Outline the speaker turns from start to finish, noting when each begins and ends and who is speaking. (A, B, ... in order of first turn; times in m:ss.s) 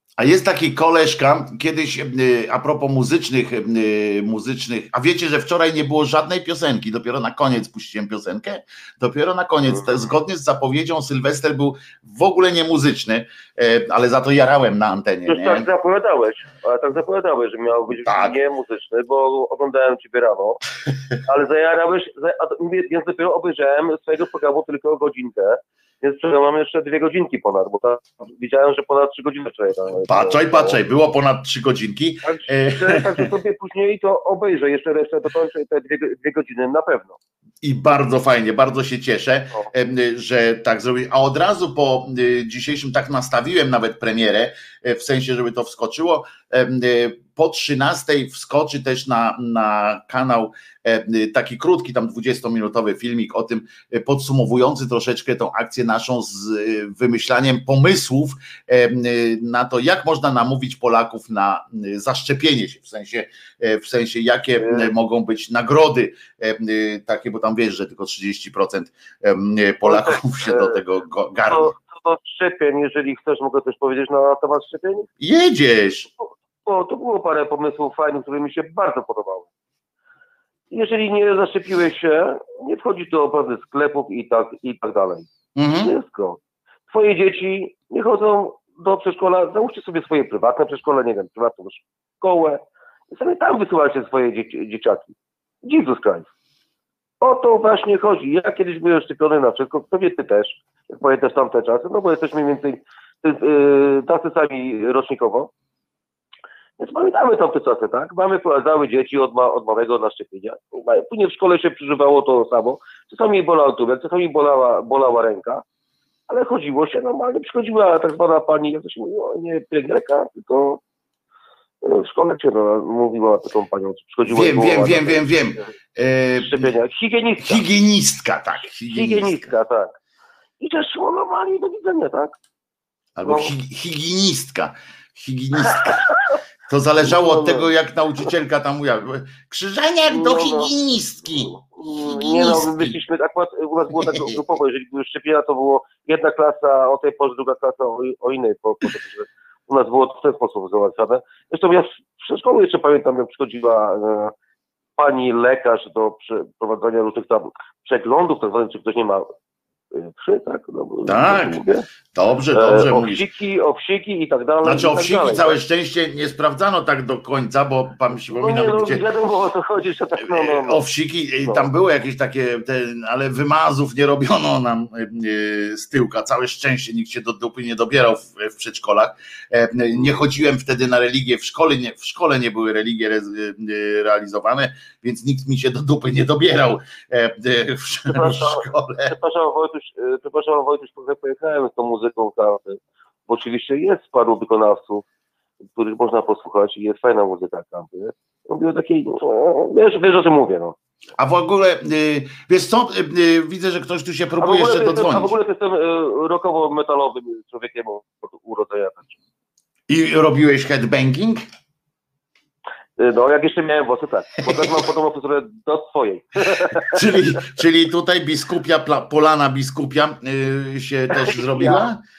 0:00.2-0:15.7 A
0:15.3-0:20.6 B
0:17.9-0:18.4 A
0:21.2-0:30.8 B
0:30.0-0:33.3 A
0:32.2-0:37.2 B
0:37.6-1:11.7 A
1:04.6-1:04.9 B
1:09.8-1:10.8 B
1:11.5-1:15.1 B
1:15.2-1:16.1 A
1:16.2-1:19.5 B
1:20.7-1:25.3 B
1:25.6-1:25.9 A
1:25.8-1:36.3 B
1:37.2-1:45.5 B
1:46.8-1:55.6 B
1:56.3-2:00.8 B
2:01.8-2:05.2 B
2:04.3-2:06.7 A
2:06.4-2:07.6 B
2:07.4-2:09.5 A
2:08.9-2:09.9 B
2:10.6-2:12.3 B
2:13.2-2:16.0 A
2:13.2-2:13.5 B
2:16.7-2:22.9 A
2:17.1-2:17.6 B
2:20.1-2:20.7 B
2:21.5-2:34.3 B
2:35.0-2:39.3 B
2:39.9-2:41.8 B
2:41.0-2:41.6 A
2:42.1-2:43.2 A
2:42.5-2:45.6 B
2:44.6-2:49.0 A
2:48.3-2:50.8 B
2:50.2-3:09.1 A
3:08.1-3:15.0 B
3:15.7-3:20.8 B
3:21.2-3:25.3 A
3:24.4-3:29.1 B
3:29.9-3:31.4 A
3:33.0-3:37.0 B
3:36.9-3:42.0 A
3:41.1-3:41.9 B